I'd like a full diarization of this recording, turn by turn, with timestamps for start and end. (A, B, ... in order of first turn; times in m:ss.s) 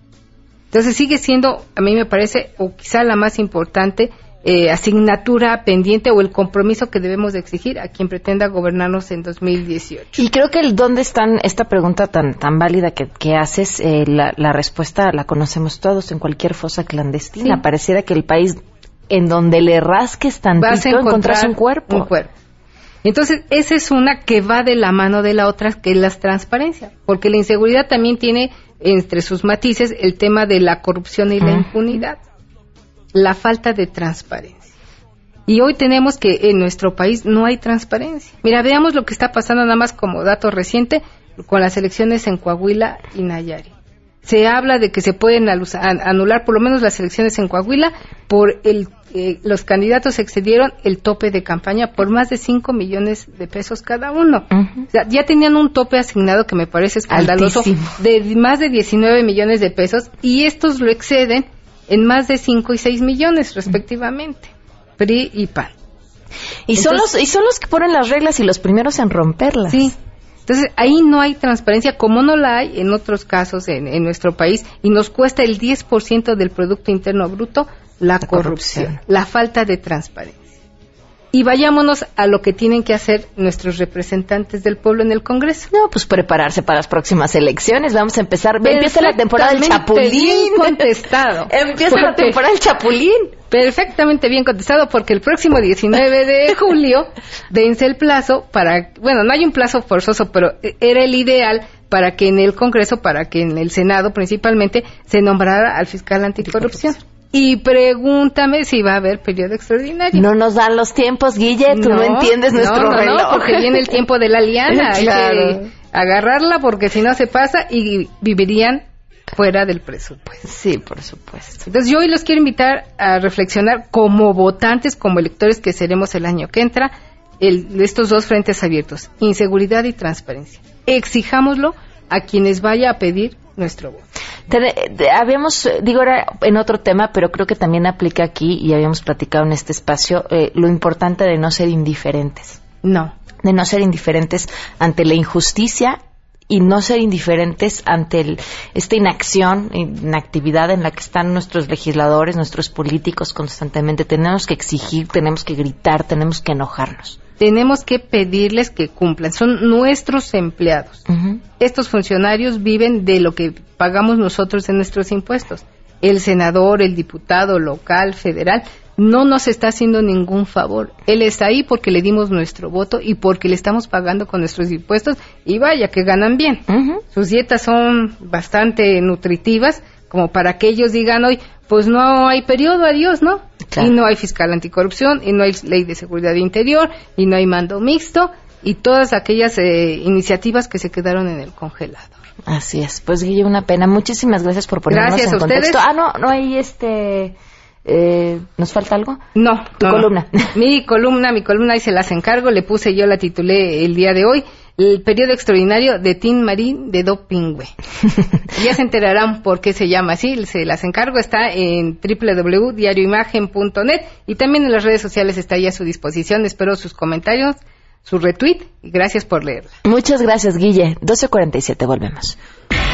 0:00.7-0:10.2 A
0:10.2-0:22.1 B
0:20.6-0:22.3 A
0:23.0-0:32.2 A
0:31.4-0:31.7 B
0:33.1-0:34.7 A
0:35.5-0:43.7 A
0:44.2-1:05.7 A
0:54.6-0:54.8 B
0:57.1-0:57.9 B
1:06.7-1:09.9 B
1:06.8-1:07.0 A
1:09.7-1:10.0 A
1:10.5-1:20.4 A
1:18.2-1:19.0 B
1:21.3-1:25.7 A
1:25.7-1:33.4 B
1:28.6-1:32.4 A
1:33.5-1:50.3 A
1:50.1-1:53.9 B
1:51.7-2:00.4 A
1:54.7-1:55.7 B
2:00.4-2:01.7 B
2:01.7-2:14.0 A
2:14.5-2:22.6 B
2:22.8-2:23.1 A
2:23.4-2:37.2 B
2:37.4-2:41.0 A
2:41.1-2:41.4 B
2:41.6-3:12.2 A
2:56.7-2:57.0 B
3:12.5-3:19.2 B
3:14.9-3:15.8 A
3:19.4-3:27.7 A
3:19.8-3:20.5 B
3:28.6-3:39.7 A
3:39.8-3:42.4 B